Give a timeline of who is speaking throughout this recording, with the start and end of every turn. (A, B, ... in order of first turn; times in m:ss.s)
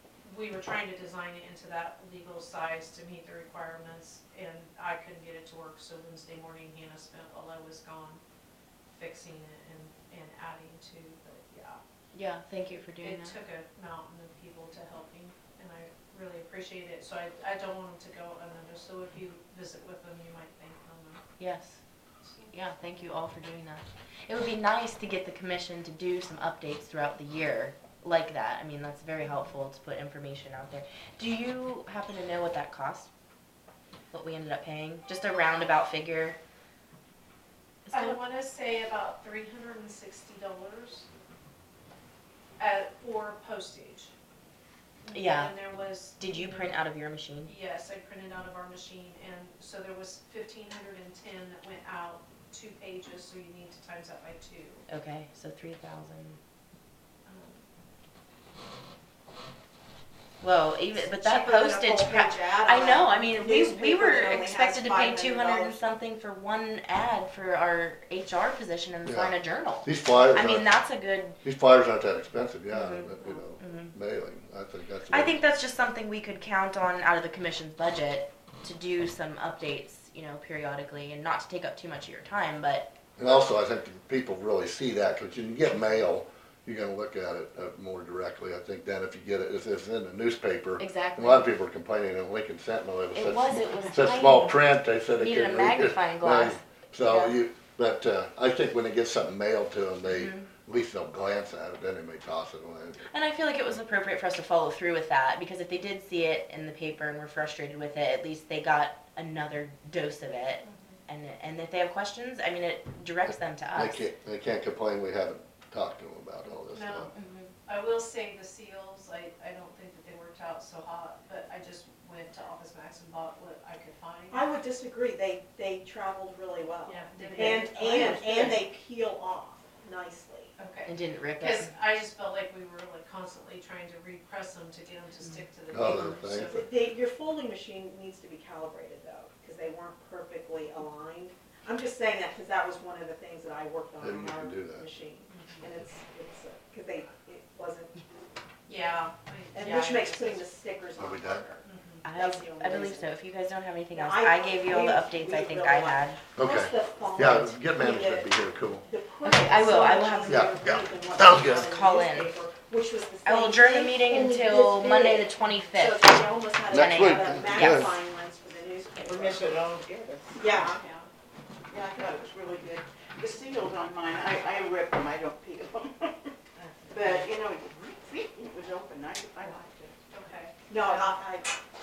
0:00.2-0:08.2 A
0:08.9-0:11.8 A
0:12.1-0:13.4 B
0:13.0-0:21.2 A
0:21.4-0:21.8 B
0:22.2-0:22.5 A
0:22.5-0:33.1 B
0:34.1-0:36.4 B
0:37.8-0:38.2 B
0:37.9-0:41.1 A
0:42.6-0:44.1 A
0:45.0-0:46.8 A
0:45.1-0:47.5 B
0:47.4-0:54.8 A
0:54.9-0:56.4 B
0:57.2-0:57.6 A
1:00.4-1:11.4 B
1:00.9-1:05.8 C
1:09.0-1:10.8 D
1:11.4-1:15.4 D
1:12.7-1:13.9 B
1:15.1-1:22.9 B
1:23.2-1:43.1 D
1:30.8-1:31.5 B
1:33.1-1:37.4 B
1:40.2-1:40.5 B
1:43.0-1:54.0 B
1:50.6-1:51.0 A
1:53.7-1:57.1 D
1:56.4-2:04.5 A
1:57.1-1:57.5 B
2:04.3-2:10.5 C
2:06.9-2:08.6 A
2:10.6-2:16.7 A
2:10.8-2:11.7 B
2:15.2-2:16.1 B
2:15.7-2:16.6 D
2:16.5-2:28.0 C
2:24.0-2:24.9 D
2:25.3-2:25.7 A
2:28.7-2:30.4 A
2:29.5-2:33.1 C
2:31.0-2:31.4 D
2:31.6-2:32.0 A
2:32.0-2:36.2 B
2:33.9-2:49.6 C
2:36.4-2:38.8 D
2:39.2-2:40.5 B
2:40.3-2:41.7 D
2:41.6-2:42.4 B
2:43.2-2:46.1 B
2:46.7-2:47.9 B
2:46.7-2:47.9 D
2:49.0-2:50.4 E
2:50.4-2:50.8 C
2:50.5-2:51.1 A
2:51.7-2:56.3 E
2:56.9-2:59.9 E
3:00.1-3:01.2 A
3:00.7-3:01.5 C